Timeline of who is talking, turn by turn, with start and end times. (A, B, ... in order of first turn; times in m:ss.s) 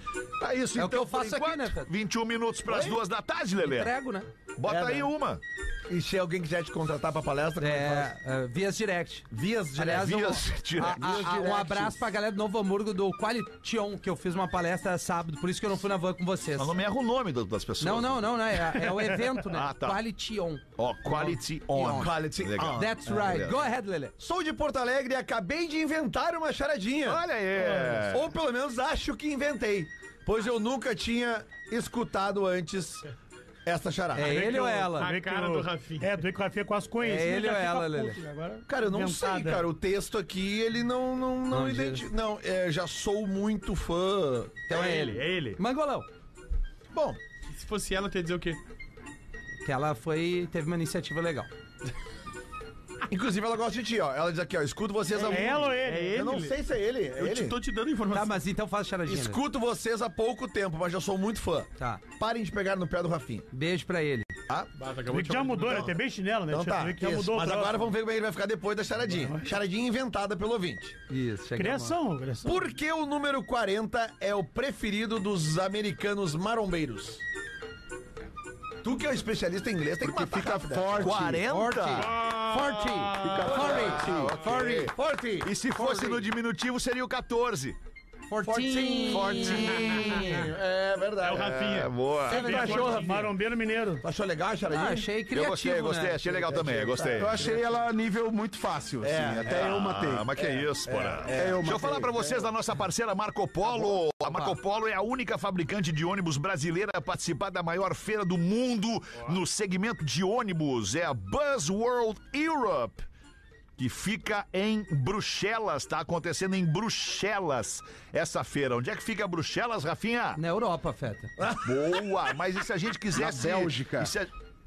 0:00.4-0:03.9 A
0:00.8-0:01.9 B
0:02.7-0:03.0 C
0:03.6-0:04.3 B
0:04.6-0:05.4 A
0:04.7-0:05.1 C
0:05.9-0:08.1 C
0:07.6-0:16.8 B
0:09.3-0:12.0 C
0:09.9-0:11.2 A
0:16.6-0:18.8 A
0:17.8-0:22.1 B
0:19.4-0:20.0 A
0:20.8-0:23.6 A
0:21.8-0:23.3 C
0:22.7-0:24.1 B
0:24.2-0:27.3 C
0:27.0-0:28.3 A
0:27.6-0:28.0 D
0:28.1-0:33.1 C
0:33.6-0:34.4 C
0:34.1-0:35.1 B
0:34.2-0:36.2 E
0:35.0-0:39.7 D
0:37.0-0:38.2 B
0:38.7-0:45.1 C
0:41.5-0:42.0 B
0:44.7-0:45.6 E
0:44.7-0:46.1 B
0:46.9-0:47.2 C
0:47.5-0:48.6 E
0:49.6-0:51.5 B
0:53.1-0:57.6 C
0:55.2-0:56.4 D
0:55.2-0:56.6 E
0:57.2-0:58.4 E
0:58.1-0:59.4 B
0:59.1-1:03.5 C
1:03.5-1:04.3 B
1:04.8-1:05.9 E
1:05.1-1:07.9 D
1:06.5-1:11.0 C
1:09.1-1:09.5 D
1:11.1-1:12.0 B
1:11.6-1:12.7 D
1:12.4-1:17.2 C
1:18.8-1:21.3 C
1:20.0-1:21.4 F
1:21.0-1:22.2 A
1:21.5-1:24.9 B
1:22.0-1:23.6 E
1:23.2-1:24.4 F
1:23.4-1:26.3 C
1:23.6-1:27.8 A
1:28.3-1:30.4 B
1:28.4-1:31.6 C
1:29.1-1:30.3 A
1:31.2-1:33.1 E
1:31.4-1:32.6 A
1:32.3-1:33.0 B
1:32.3-1:33.3 C
1:32.3-1:34.0 D
1:34.0-1:35.1 C
1:34.7-1:36.2 B
1:35.3-1:37.4 A
1:36.2-1:37.6 C
1:37.1-1:40.3 F
1:39.0-1:39.8 C
1:39.5-1:53.0 A
1:40.4-1:41.8 C
1:41.3-1:42.5 F
1:43.7-1:44.0 C
1:53.8-2:00.4 A
2:00.4-2:01.3 B
2:01.4-2:02.3 C
2:01.6-2:04.3 A
2:03.1-2:04.1 F